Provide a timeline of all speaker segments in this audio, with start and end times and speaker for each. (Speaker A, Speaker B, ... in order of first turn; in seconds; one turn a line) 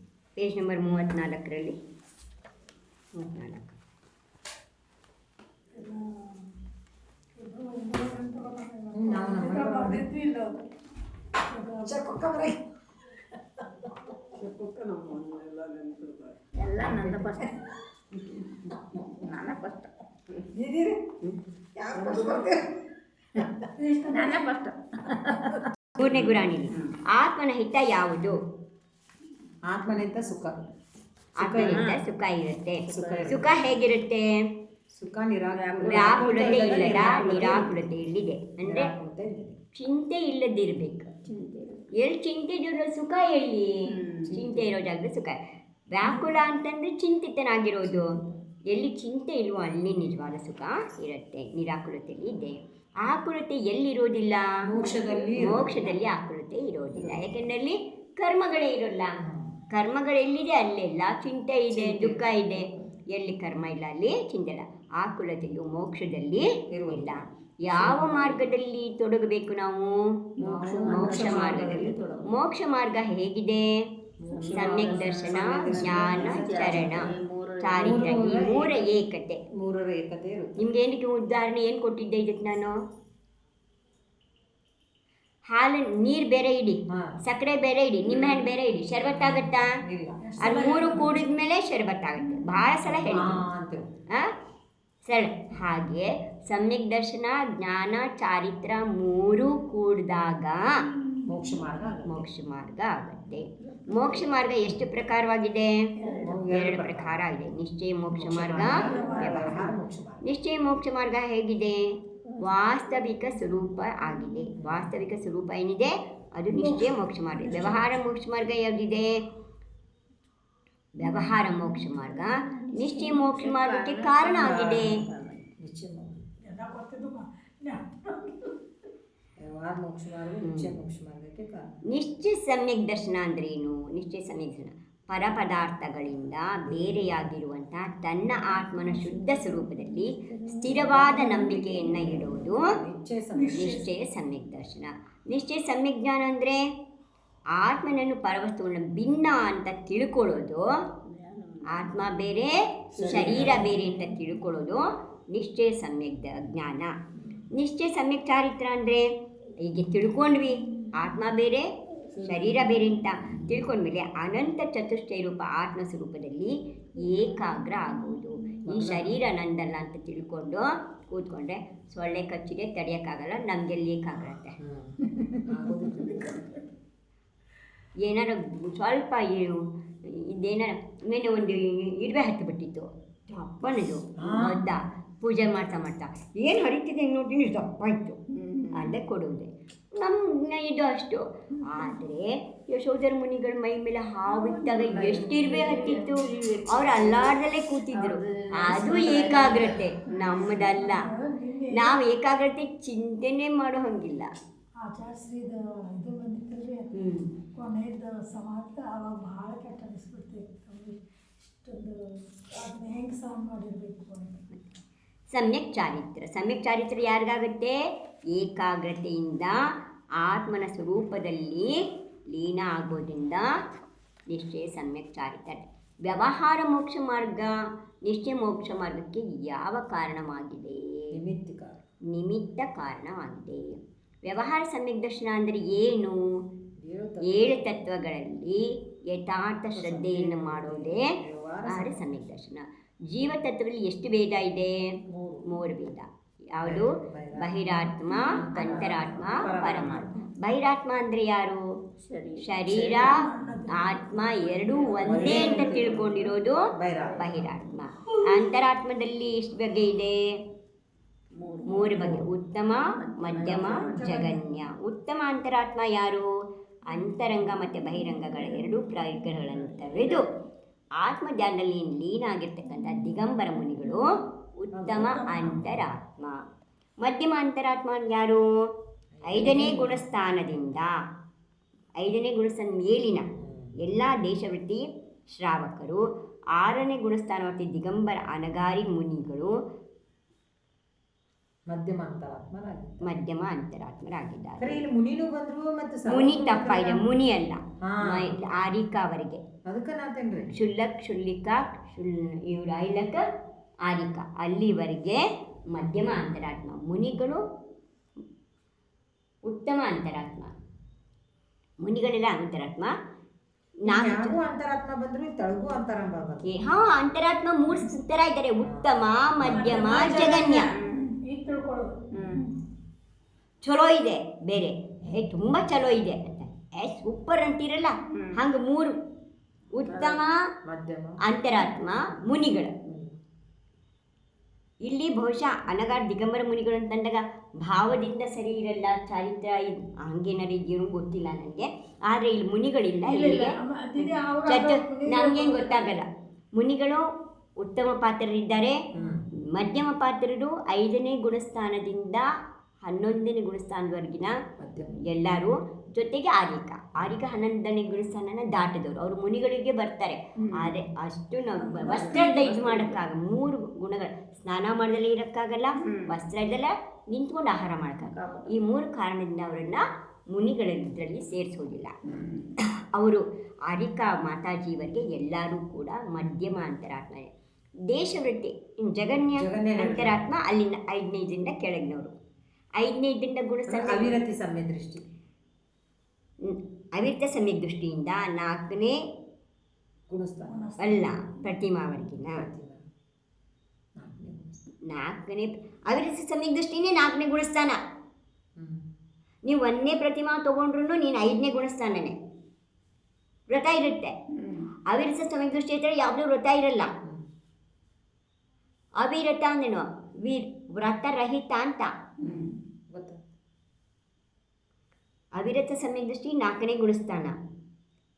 Speaker A: 0.4-1.8
Speaker A: 3.2-3.8
Speaker B: 5.7-6.5
Speaker B: 7.4-10.5
Speaker C: 8.9-10.1
Speaker B: 11.4-12.1
Speaker C: 11.8-12.6
Speaker D: 14.4-17.6
Speaker C: 16.8-17.5
Speaker D: 19.1-19.9
Speaker C: 20.5-21.2
Speaker C: 21.8-22.7
Speaker B: 23.8-24.5
Speaker D: 24.1-25.4
Speaker A: 26.0-28.4
Speaker D: 26.0-27.0
Speaker C: 29.6-30.6
Speaker C: 31.4-31.9
Speaker A: 31.4-34.4
Speaker D: 31.6-32.0
Speaker D: 32.9-33.6
Speaker C: 32.9-33.7
Speaker C: 34.9-37.8
Speaker D: 35.5-37.6
Speaker A: 35.8-38.9
Speaker C: 38.6-39.6
Speaker A: 39.8-41.1
Speaker D: 41.3-41.9
Speaker A: 42.0-45.4
Speaker D: 43.9-44.4
Speaker C: 44.4-44.7
Speaker A: 45.9-48.1
Speaker B: 46.0-46.3
Speaker C: 47.8-48.4
Speaker A: 48.7-54.5
Speaker C: 54.6-56.0
Speaker A: 55.4-59.1
Speaker C: 59.2-59.5
Speaker A: 59.7-69.9
Speaker C: 61.7-62.9
Speaker C: 66.7-68.5
Speaker D: 70.4-72.2
Speaker C: 70.4-72.3
Speaker A: 70.8-73.7
Speaker C: 74.2-77.1
Speaker D: 74.3-78.2
Speaker A: 74.5-79.4
Speaker C: 77.7-78.9
Speaker C: 79.5-80.6
Speaker A: 80.6-82.7
Speaker A: 85.5-89.8
Speaker D: 88.1-88.5
Speaker C: 89.0-90.2
Speaker B: 90.2-91.2
Speaker A: 90.4-93.4
Speaker D: 92.2-92.7
Speaker C: 92.8-93.9
Speaker A: 95.1-100.6
Speaker D: 100.9-102.2
Speaker C: 101.3-102.2
Speaker A: 102.0-105.8
Speaker D: 103.6-104.3
Speaker D: 106.0-106.5
Speaker B: 106.0-106.3
Speaker C: 106.2-107.3
Speaker A: 106.5-109.7
Speaker C: 108.1-110.3
Speaker B: 108.5-109.7
Speaker A: 110.2-111.8
Speaker A: 112.4-119.1
Speaker C: 114.6-115.0
Speaker B: 116.5-118.0
Speaker A: 121.0-125.0
Speaker B: 122.6-123.3
Speaker D: 123.2-125.4
Speaker C: 125.6-126.2
Speaker B: 126.4-128.5
Speaker C: 129.4-131.7
Speaker A: 130.4-130.7
Speaker A: 131.9-142.6
Speaker C: 140.5-143.7
Speaker B: 143.3-143.9
Speaker A: 143.5-146.6
Speaker A: 147.6-150.7
Speaker D: 151.1-152.0
Speaker A: 151.7-154.8
Speaker C: 153.0-153.7
Speaker D: 153.0-153.5
Speaker A: 155.3-156.9
Speaker A: 157.5-159.1
Speaker A: 159.6-161.7
Speaker D: 162.1-162.8
Speaker A: 162.2-174.6
Speaker C: 168.7-169.2
Speaker C: 174.6-176.3
Speaker A: 178.0-188.2
Speaker C: 184.2-184.6
Speaker D: 188.3-189.0
Speaker A: 188.7-201.1
Speaker B: 194.3-194.8
Speaker D: 194.5-197.4
Speaker D: 197.9-200.7
Speaker B: 200.3-202.0
Speaker A: 201.7-204.3
Speaker B: 204.8-212.0
Speaker A: 206.9-207.3
Speaker B: 212.5-214.4
Speaker A: 215.3-217.8
Speaker A: 218.3-219.5
Speaker A: 220.2-221.8
Speaker A: 222.3-223.5
Speaker A: 224.3-227.5
Speaker A: 228.1-230.8
Speaker C: 231.1-231.8
Speaker A: 232.1-236.2
Speaker C: 236.8-237.7
Speaker A: 237.3-241.1
Speaker C: 239.7-242.0
Speaker A: 241.7-244.8
Speaker C: 245.1-245.5
Speaker A: 245.5-251.6
Speaker C: 246.6-247.6
Speaker B: 248.1-250.1
Speaker C: 248.2-250.2
Speaker D: 252.0-253.2
Speaker A: 252.4-256.6
Speaker B: 252.8-255.8
Speaker C: 255.0-257.5
Speaker D: 257.0-257.5
Speaker A: 257.2-260.2
Speaker D: 261.4-264.2
Speaker A: 261.7-266.3
Speaker B: 263.5-264.5
Speaker A: 266.9-270.2
Speaker D: 268.2-268.7
Speaker D: 269.2-270.3
Speaker A: 271.0-274.1
Speaker A: 274.6-276.4
Speaker C: 274.7-275.6
Speaker A: 277.0-278.4
Speaker C: 279.2-280.0
Speaker A: 279.3-280.9
Speaker A: 282.0-283.2
Speaker C: 283.4-283.7
Speaker A: 283.8-286.0
Speaker A: 286.6-289.5
Speaker C: 291.7-293.0
Speaker A: 293.0-294.8
Speaker C: 294.6-297.1
Speaker A: 296.1-299.4
Speaker C: 297.8-298.3
Speaker C: 299.7-300.5
Speaker A: 300.5-303.2
Speaker A: 303.9-307.4
Speaker A: 309.5-310.5
Speaker A: 311.8-312.9
Speaker A: 313.9-314.4
Speaker C: 313.9-316.5
Speaker A: 316.5-320.7
Speaker C: 318.6-319.9
Speaker B: 319.5-322.0
Speaker D: 319.9-321.1
Speaker D: 322.1-322.6
Speaker A: 323.6-328.9
Speaker D: 328.1-328.4
Speaker A: 329.7-330.4
Speaker D: 329.9-330.2
Speaker C: 330.6-331.2
Speaker A: 331.3-332.7
Speaker C: 332.9-333.2
Speaker A: 334.9-347.0
Speaker B: 343.1-345.9
Speaker A: 347.6-348.8
Speaker C: 348.9-349.2
Speaker A: 349.5-352.3
Speaker A: 352.9-354.3
Speaker C: 354.6-355.0
Speaker A: 355.0-371.9
Speaker D: 360.4-360.8
Speaker B: 361.6-362.5
Speaker C: 361.9-362.2
Speaker D: 361.9-363.0
Speaker D: 365.8-366.2
Speaker D: 368.1-368.6
Speaker D: 372.1-372.5
Speaker A: 372.9-377.3
Speaker A: 377.9-382.1
Speaker C: 379.3-380.2
Speaker A: 382.8-384.2
Speaker C: 383.7-385.0
Speaker A: 386.4-389.0
Speaker C: 390.1-390.7
Speaker B: 390.5-391.4
Speaker A: 390.8-392.4
Speaker C: 392.4-392.8
Speaker C: 394.0-394.6
Speaker A: 394.9-397.8
Speaker C: 398.6-398.8
Speaker A: 399.5-402.2
Speaker A: 403.5-404.1
Speaker D: 404.3-404.7
Speaker A: 404.9-406.9
Speaker A: 409.0-411.9
Speaker D: 412.2-412.5
Speaker C: 412.2-413.2
Speaker A: 415.4-417.3